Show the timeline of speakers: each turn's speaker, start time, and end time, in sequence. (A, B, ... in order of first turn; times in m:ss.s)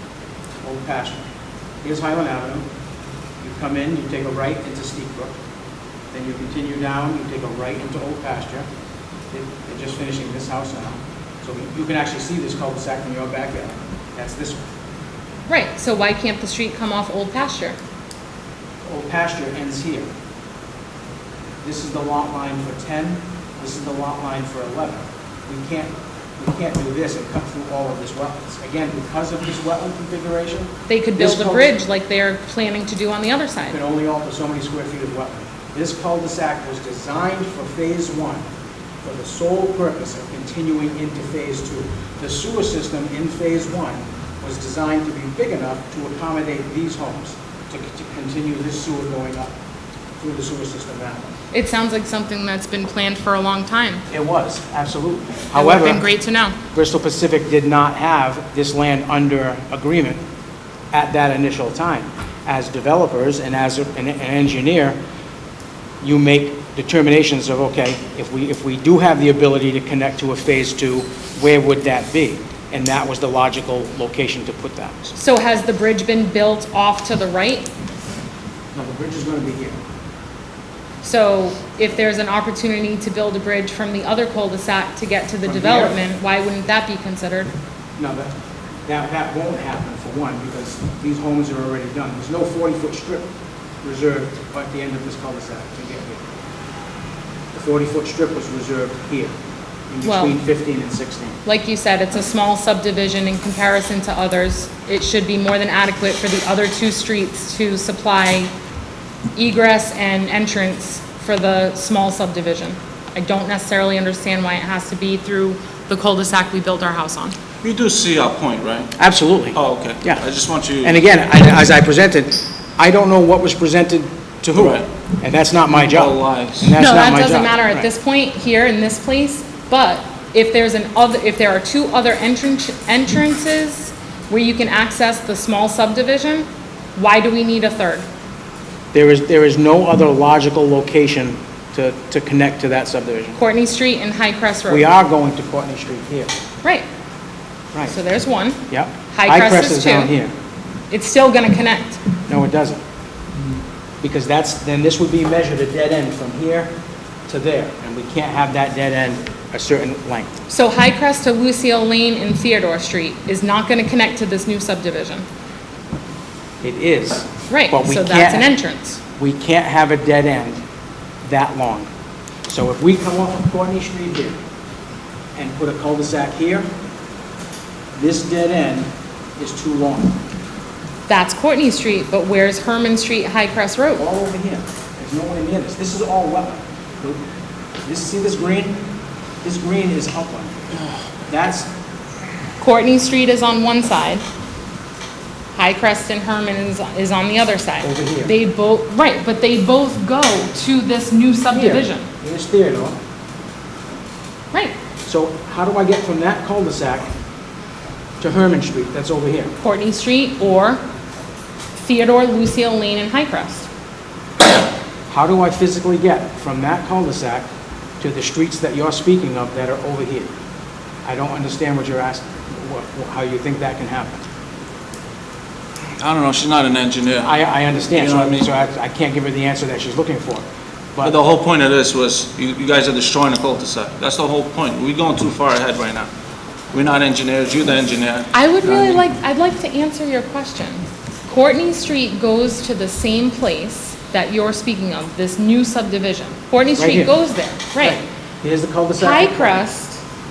0:00.6-0:01.3 A
0:01.8-0:02.7 A
0:03.4-0:05.4 A
0:06.1-0:08.7 A
0:09.3-0:14.6 A
0:15.5-0:17.8 B
0:18.9-0:20.1 A
0:21.6-0:31.8 A
0:30.9-0:33.8 B
0:33.6-0:38.5 A
0:39.0-0:49.5 A
0:50.2-0:51.3 A
0:51.5-0:54.0 B
0:54.1-0:56.1 A
0:55.6-0:56.6 B
0:56.7-1:00.2 A
1:00.9-1:05.0 A
1:06.0-1:15.1 A
1:15.2-1:17.7 B
1:18.7-1:19.8 A
1:21.0-1:27.5 B
1:25.4-1:26.0 A
1:28.0-1:28.3 A
1:28.9-1:33.3 A
1:33.8-1:36.2 A
1:37.5-1:39.3 A
1:39.9-1:41.4 A
1:40.0-1:40.4 B
1:41.5-1:48.5 B
1:49.4-1:57.4 B
1:57.6-1:59.0 C
1:59.0-2:00.2 A
1:59.5-2:01.0 C
2:00.8-2:07.9 A
2:04.6-2:04.9 C
2:05.7-2:06.8 C
2:06.8-2:18.1 B
2:18.9-2:23.4 A
2:23.4-2:24.9 B
2:24.7-2:26.4 A
2:27.9-2:28.6 B
2:28.7-2:30.3 A
2:29.1-2:30.1 B
2:30.9-2:32.0 B
2:32.3-2:32.8 A
2:34.0-2:36.7 A
2:37.3-2:40.3 A
2:40.5-2:45.2 B
2:46.6-2:48.5 A
2:47.5-2:49.0 B
2:49.2-2:50.6 A
2:51.2-2:51.9 A
2:52.5-2:54.4 A
2:55.4-2:56.7 A
2:57.9-3:00.2 A
3:01.1-3:04.0 B
3:04.0-3:07.2 A
3:07.8-3:08.9 A
3:09.4-3:11.7 A
3:12.6-3:14.2 B
3:15.5-3:22.1 B
3:17.8-3:18.3 A
3:21.5-3:23.0 A
3:25.0-3:27.1 A
3:28.2-3:29.5 A
3:29.6-3:30.8 B
3:31.8-3:33.7 B
3:35.1-3:37.5 A
3:38.0-3:40.3 A
3:41.0-3:44.2 A
3:46.0-3:47.3 C
3:47.2-3:50.4 A
3:47.9-3:48.5 C
3:51.0-3:56.1 C
3:56.7-3:59.0 C
3:58.3-4:08.0 B
4:06.8-4:07.1 A
4:07.8-4:09.6 A
4:09.0-4:10.0 B